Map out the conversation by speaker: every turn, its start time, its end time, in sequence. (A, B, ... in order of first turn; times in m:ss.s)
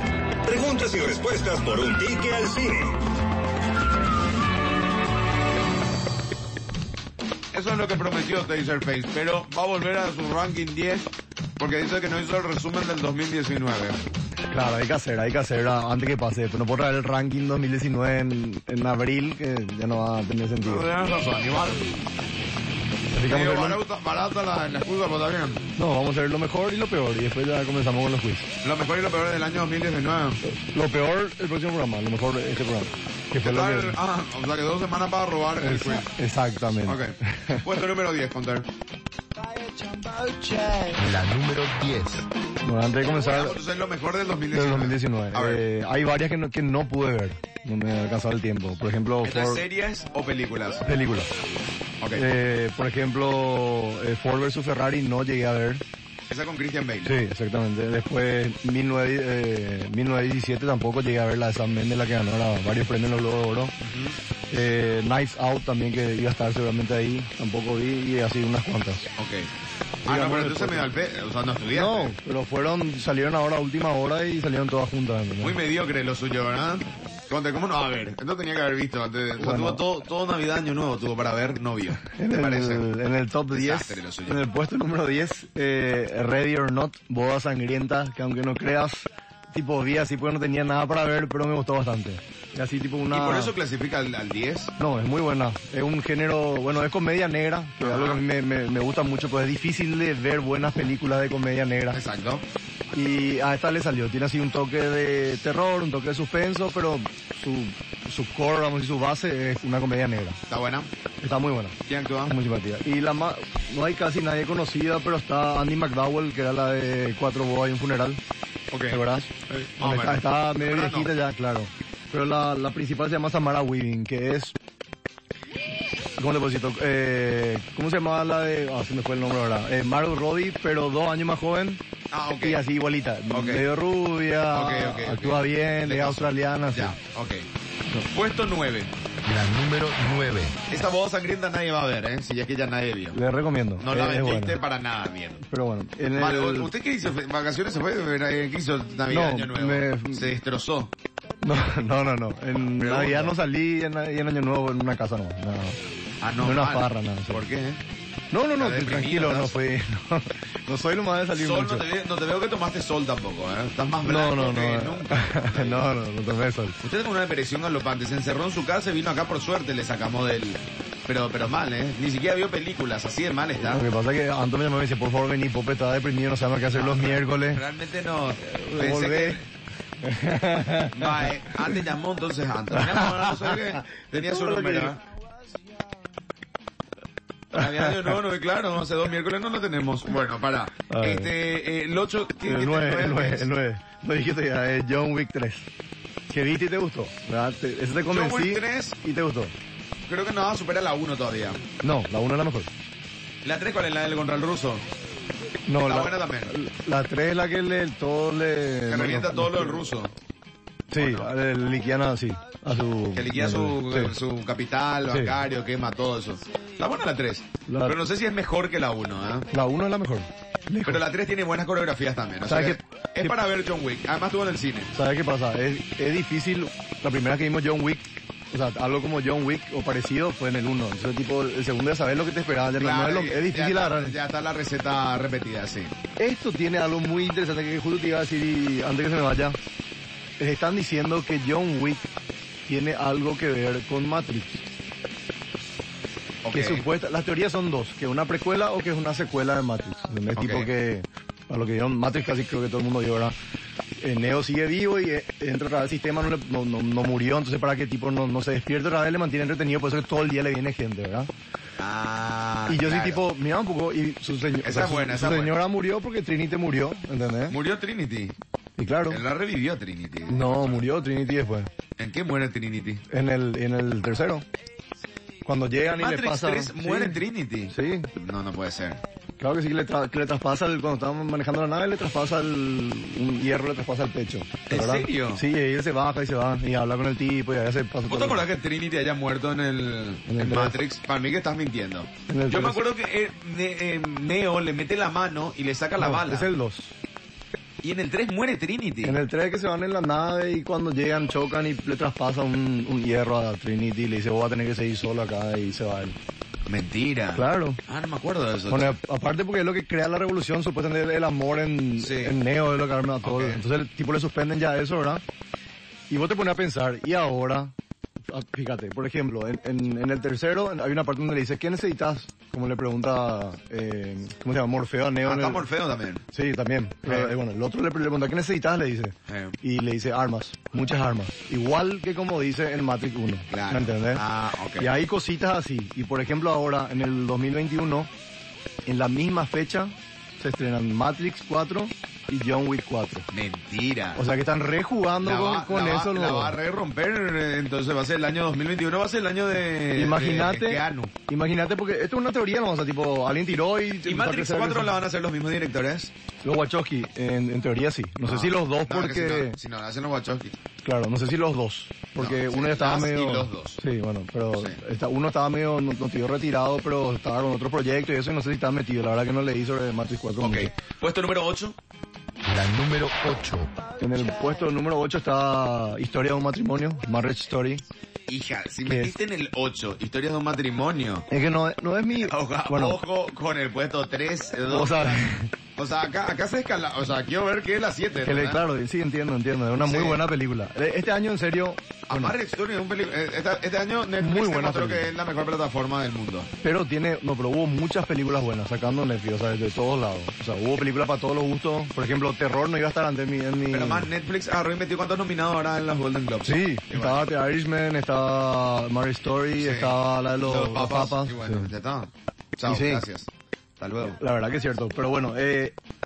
0:00.4-0:03.0 A
0:07.5-0:14.1 B
0:14.5-0:20.9 C
0:20.6-0:21.9 B
0:23.1-0:23.8 C
0:23.2-0:25.6 B
0:25.8-0:28.5 C
0:28.6-0:30.4 B
0:30.4-0:34.0 C
0:33.4-0:36.1 B
0:35.6-0:37.6 C
0:36.8-0:38.7 B
0:40.9-0:42.2 D
0:42.6-0:43.6 C
0:43.0-0:45.6 B
0:44.5-0:49.6 C
0:49.2-0:50.9 B
0:50.8-0:51.3 C
0:52.0-0:52.3 B
0:52.1-0:55.8 C
0:56.3-0:57.1 B
0:57.0-1:03.7 C
1:03.8-1:04.2 B
1:04.5-1:09.1 C
1:09.2-1:09.5 B
1:10.0-1:12.1 B
1:10.1-1:10.9 C
1:11.7-1:15.5 C
1:15.4-1:22.9 B
1:19.4-1:19.8 C
1:22.2-1:33.5 C
1:23.5-1:24.5 B
1:33.1-1:34.7 B
1:34.8-1:42.0 C
1:37.8-1:38.2 B
1:41.9-1:42.4 B
1:42.9-1:50.4 C
1:50.5-1:50.9 B
1:51.2-1:58.2 C
1:51.9-1:52.3 B
1:58.7-2:01.1 B
1:58.9-2:04.5 C
2:06.2-2:11.8 C
2:12.1-2:12.6 B
2:12.3-2:17.0 C
2:13.3-2:13.7 B
2:14.5-2:17.5 B
2:18.1-2:18.9 B
2:19.2-2:20.6 D
2:20.7-2:23.2 B
2:23.1-2:24.6 C
2:23.8-2:25.4 B
2:25.5-2:26.7 C
2:26.1-2:30.9 B
2:29.1-2:30.3 C
2:31.4-2:35.8 C
2:32.8-2:33.4 B
2:36.2-2:37.8 B
2:36.4-2:37.4 C
2:38.3-2:41.8 C
2:38.6-2:39.6 B
2:41.3-2:45.9 B
2:44.0-2:46.8 C
2:46.8-2:53.8 B
2:53.6-2:57.6 C
2:56.7-2:59.4 B
2:58.5-2:59.4 C
3:00.0-3:01.3 C
3:00.9-3:05.0 B
3:02.7-3:04.9 C
3:07.5-3:13.5 B
3:07.5-3:08.1 C
3:10.9-3:11.3 C
3:12.4-3:15.7 C
3:16.3-3:19.5 C
3:18.0-3:19.0 B
3:20.0-3:21.6 B
3:21.8-3:22.7 C
3:23.4-3:24.8 B
3:25.7-3:29.8 C
3:25.8-3:26.5 B
3:28.9-3:30.1 B
3:30.9-3:34.1 C
3:31.0-3:31.3 B
3:33.1-3:39.5 B
3:35.1-3:35.4 C
3:37.7-3:38.0 C
3:39.5-3:41.0 C
3:40.8-3:44.9 B
3:42.5-3:43.4 C
3:44.9-3:54.2 C
3:52.8-3:56.0 B
3:56.2-3:59.6 C
4:00.4-4:02.1 C
4:02.7-4:04.6 C
4:06.4-4:06.8 B
4:06.5-4:13.3 C
4:10.3-4:10.7 B
4:14.0-4:21.3 C
4:21.8-4:23.2 B
4:22.7-4:27.6 C
4:24.6-4:25.6 B
4:27.5-4:28.3 B
4:28.8-4:29.2 C
4:29.1-4:30.8 B
4:30.3-4:31.7 C
4:32.0-4:33.0 B
4:33.1-4:34.4 C
4:35.4-4:38.1 C
4:35.9-4:39.0 B
4:39.4-4:48.4 C
4:44.7-4:45.4 B
4:48.1-4:56.5 B
4:50.3-4:50.7 C
4:52.3-4:52.8 C
4:56.0-4:56.9 C
4:57.8-4:59.2 B
4:59.0-5:06.2 C
5:06.7-5:09.0 B
5:07.3-5:07.8 C
5:08.7-5:15.2 C
5:12.0-5:12.3 B
5:13.2-5:13.6 B
5:16.1-5:17.7 C
5:18.3-5:25.6 C
5:25.2-5:26.2 B
5:26.3-5:34.2 C
5:27.0-5:27.3 B
5:29.3-5:29.6 B
5:33.5-5:34.9 B
5:34.8-5:38.1 C
5:38.9-5:43.3 C
5:43.3-5:44.2 B
5:44.2-5:46.6 C
5:45.2-5:51.1 B
5:50.0-5:55.0 C
5:54.0-5:56.1 B
5:56.4-5:59.6 C
5:58.2-6:00.6 B
6:00.8-6:10.7 C
6:02.2-6:03.8 B
6:04.5-6:04.8 B
6:10.4-6:11.8 B
6:12.4-6:13.7 D
6:14.0-6:17.8 C
6:18.3-6:21.3 B
6:18.8-6:19.1 C
6:21.3-6:23.0 C
6:22.2-6:28.6 B
6:24.7-6:25.5 C
6:28.2-6:32.3 C
6:29.8-6:30.2 B
6:32.1-6:36.5 B
6:34.2-6:35.1 C
6:36.6-6:44.1 C
6:43.7-6:47.3 B
6:46.4-6:51.7 C
6:49.6-6:54.2 B
6:52.6-6:53.0 C
6:54.0-6:55.7 C